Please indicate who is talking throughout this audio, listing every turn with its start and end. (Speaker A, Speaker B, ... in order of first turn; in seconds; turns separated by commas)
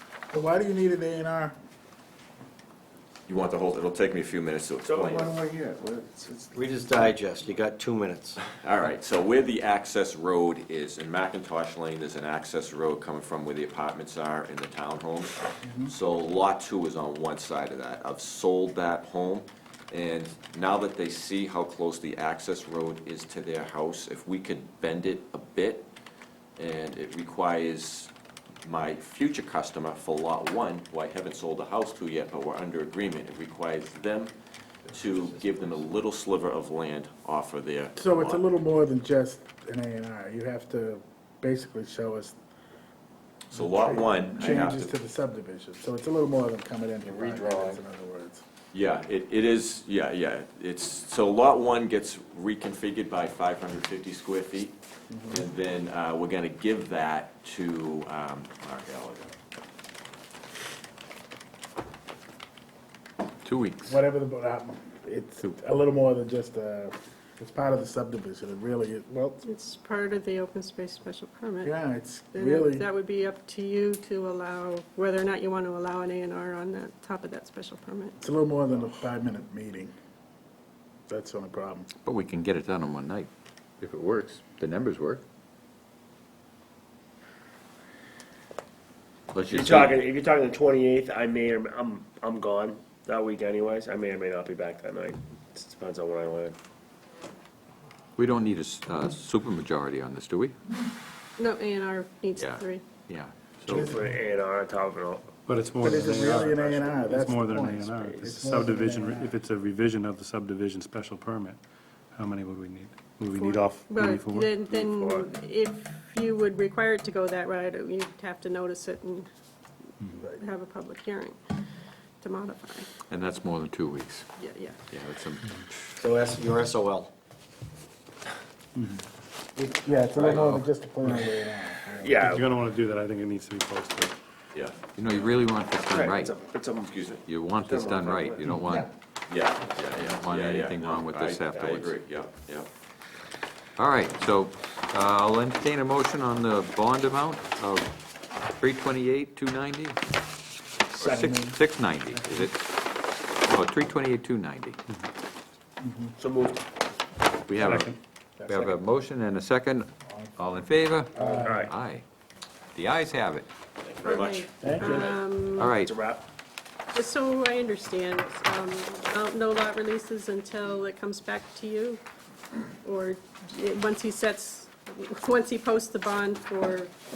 Speaker A: 0.3-1.5, Speaker B: 3.3-5.4, Speaker C: 4.8-7.0, Speaker D: 6.5-8.4, Speaker B: 8.6-25.9, Speaker A: 15.6-15.9, Speaker B: 26.6-28.1, Speaker B: 28.6-34.3, Speaker B: 34.9-38.4, Speaker A: 37.9-42.4, Speaker B: 43.5-44.9, Speaker A: 43.5-48.4, Speaker D: 47.0-47.8, Speaker B: 48.7-54.8, Speaker A: 55.1-55.4, Speaker B: 55.3-59.3, Speaker E: 63.4-64.0, Speaker A: 63.9-69.4, Speaker F: 69.4-71.7, Speaker A: 71.6-72.8, Speaker F: 72.3-78.2, Speaker A: 78.2-79.9, Speaker A: 81.1-81.9, Speaker E: 82.0-83.3, Speaker E: 83.8-85.2, Speaker E: 89.3-90.0, Speaker C: 89.5-96.5, Speaker E: 98.2-100.5, Speaker F: 101.4-102.8, Speaker E: 102.4-104.0, Speaker A: 103.6-104.0, Speaker C: 103.9-105.3, Speaker G: 105.5-111.6, Speaker A: 105.8-109.3, Speaker G: 112.1-114.6, Speaker F: 113.3-119.3, Speaker C: 114.6-115.3, Speaker F: 120.2-121.4, Speaker F: 122.2-122.9, Speaker E: 123.1-124.3, Speaker F: 124.4-124.8, Speaker E: 124.9-125.5, Speaker D: 126.0-127.1, Speaker A: 129.6-132.2, Speaker E: 130.2-130.7, Speaker C: 132.0-132.4, Speaker G: 132.2-134.2, Speaker B: 134.5-135.3, Speaker E: 134.9-136.3, Speaker C: 135.7-138.4, Speaker B: 136.8-137.2, Speaker E: 137.3-138.9, Speaker B: 139.3-142.7, Speaker E: 139.9-141.9, Speaker E: 143.8-147.9, Speaker E: 148.6-150.0, Speaker E: 151.0-152.7, Speaker A: 151.0-152.5, Speaker E: 153.4-154.8, Speaker A: 155.8-156.1, Speaker C: 156.2-156.6, Speaker E: 157.5-157.9, Speaker G: 157.6-157.9, Speaker A: 158.4-158.7, Speaker E: 158.5-162.0, Speaker A: 160.1-160.3, Speaker A: 161.2-161.7, Speaker C: 161.2-161.7, Speaker E: 162.7-163.5, Speaker B: 163.8-164.8, Speaker F: 164.0-165.7, Speaker A: 164.6-165.1, Speaker E: 165.6-165.9, Speaker C: 165.8-166.2, Speaker F: 166.9-172.0, Speaker F: 172.8-176.9